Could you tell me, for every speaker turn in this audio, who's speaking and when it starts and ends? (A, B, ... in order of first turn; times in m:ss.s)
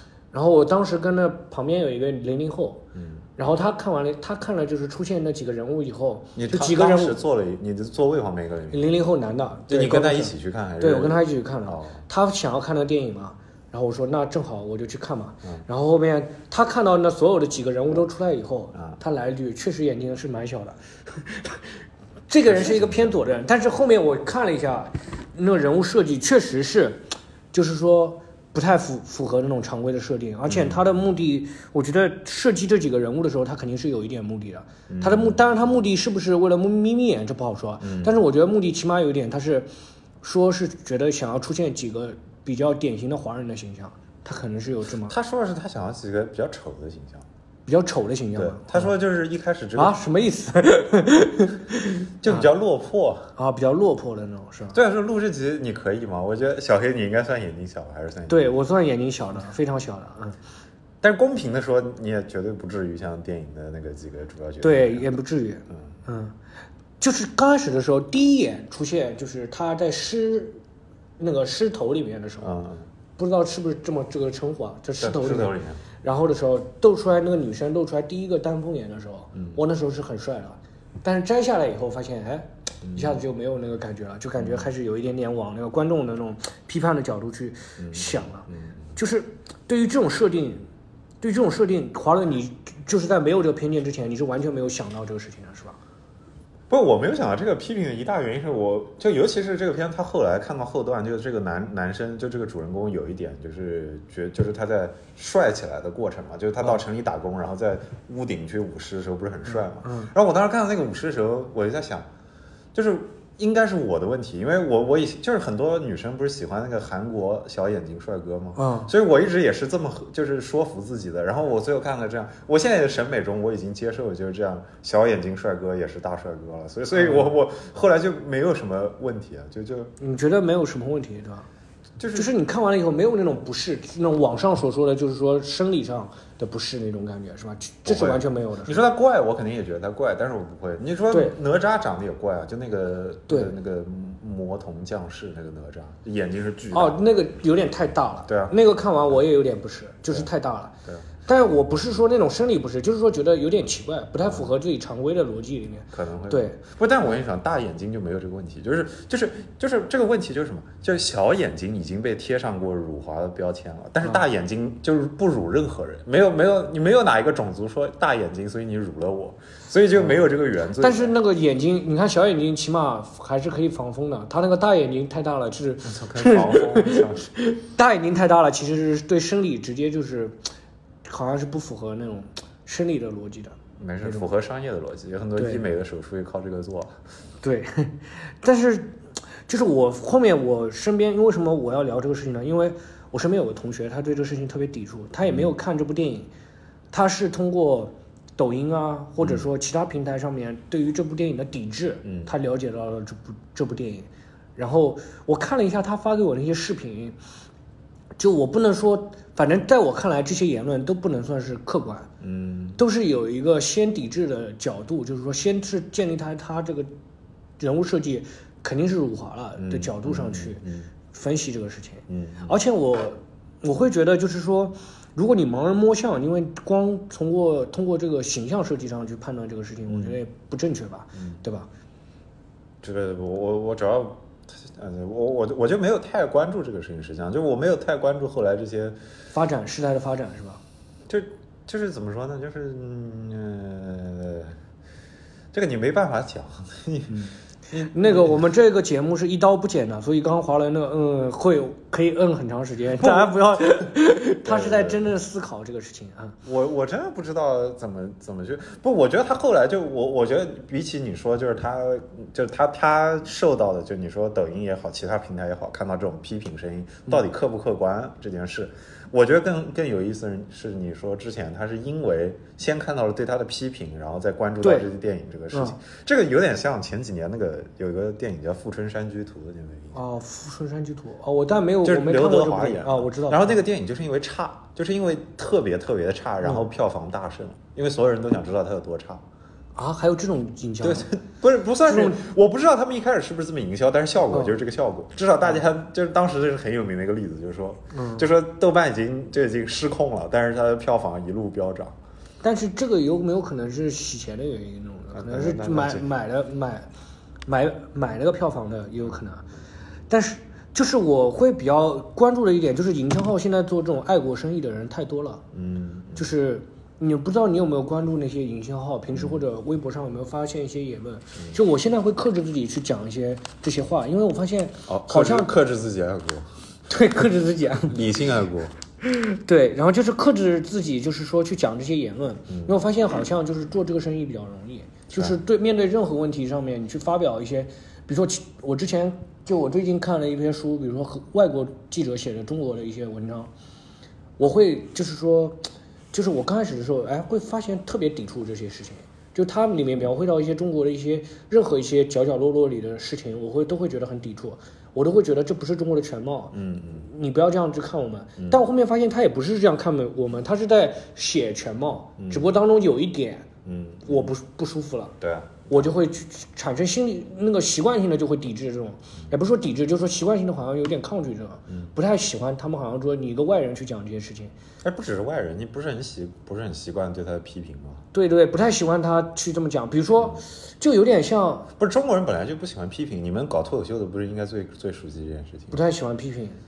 0:00.3-0:02.8 A
0:03.0-0:03.3 B
0:03.4-0:07.2 A
0:06.4-0:08.9 B
0:08.7-0:21.7 A
0:09.7-0:12.0 B
0:22.3-0:39.7 A
0:22.5-0:23.2 B
0:30.5-0:30.8 B
0:34.9-0:35.4 B
0:37.8-0:38.1 B
0:40.2-0:45.1 A
0:45.1-0:47.3 B
0:47.7-0:48.9 A
0:48.4-0:50.0 B
0:49.8-0:52.5 A
0:52.2-0:53.3 B
0:53.4-0:54.8 A
0:54.7-0:58.6 B
0:58.3-1:00.4 A
1:01.0-1:05.1 B
1:04.6-1:06.4 A
1:07.0-1:10.6 A
1:11.2-1:12.6 A
1:12.4-1:12.9 B
1:13.2-1:30.7 A
1:15.0-1:15.8 B
1:19.3-1:19.6 B
1:22.8-1:23.2 B
1:24.4-1:24.7 B
1:27.8-1:28.9 B
1:31.2-1:35.8 A
1:36.7-1:52.1 B
1:49.8-1:50.1 A
1:52.7-2:09.9 B
1:58.6-1:58.9 A
2:06.9-2:07.3 A
2:10.0-2:11.5 A
2:12.0-2:12.3 B
2:12.1-2:18.8 A
2:17.8-2:27.0 B
2:21.1-2:21.4 A
2:26.7-2:30.7 A
2:28.3-2:28.6 B
2:30.8-2:31.1 B
2:31.3-2:36.6 A
2:35.9-2:51.1 B
2:50.8-3:00.4 A
2:55.8-2:57.3 B
3:01.0-3:04.3 A
3:03.8-3:07.0 B
3:05.4-3:05.6 A
3:07.4-3:16.3 A
3:15.3-3:15.5 B
3:16.9-3:27.2 A
3:22.0-3:22.3 B
3:28.2-3:32.1 A
3:32.2-3:32.8 B
3:32.8-3:36.9 A
3:37.6-3:51.7 A
3:39.6-3:40.9 B
3:42.1-3:42.5 B
3:49.9-3:50.2 B
3:52.8-3:59.0 B
3:59.3-4:00.6 A
4:01.1-4:04.6 B
4:05.5-4:08.4 B
4:07.1-4:16.4 A
4:13.0-4:13.9 B
4:14.4-4:15.1 B
4:16.4-4:40.0 B
4:34.6-4:34.9 A
4:40.0-4:43.6 A
4:41.8-4:49.2 B
4:49.8-4:51.1 A
4:50.8-5:02.0 B
4:51.9-4:52.2 A
4:57.9-4:58.3 A
5:02.4-5:06.9 A
5:05.1-5:06.1 B
5:07.5-5:09.5 A
5:10.1-5:15.4 A
5:15.5-5:16.3 B
5:16.2-5:25.5 A
5:19.1-5:19.4 B
5:24.9-5:26.5 B
5:26.9-5:28.0 A
5:27.9-5:28.8 B
5:29.0-5:43.5 A
5:32.5-5:32.8 B
5:44.4-6:03.5 A
5:56.5-5:57.1 B
6:02.2-6:02.5 B
6:03.6-6:04.3 B
6:04.0-6:05.1 A
6:05.2-6:05.9 B
6:05.7-6:14.5 A
6:14.8-6:18.0 B
6:18.1-6:21.7 A
6:21.8-6:25.8 B
6:25.7-6:26.6 A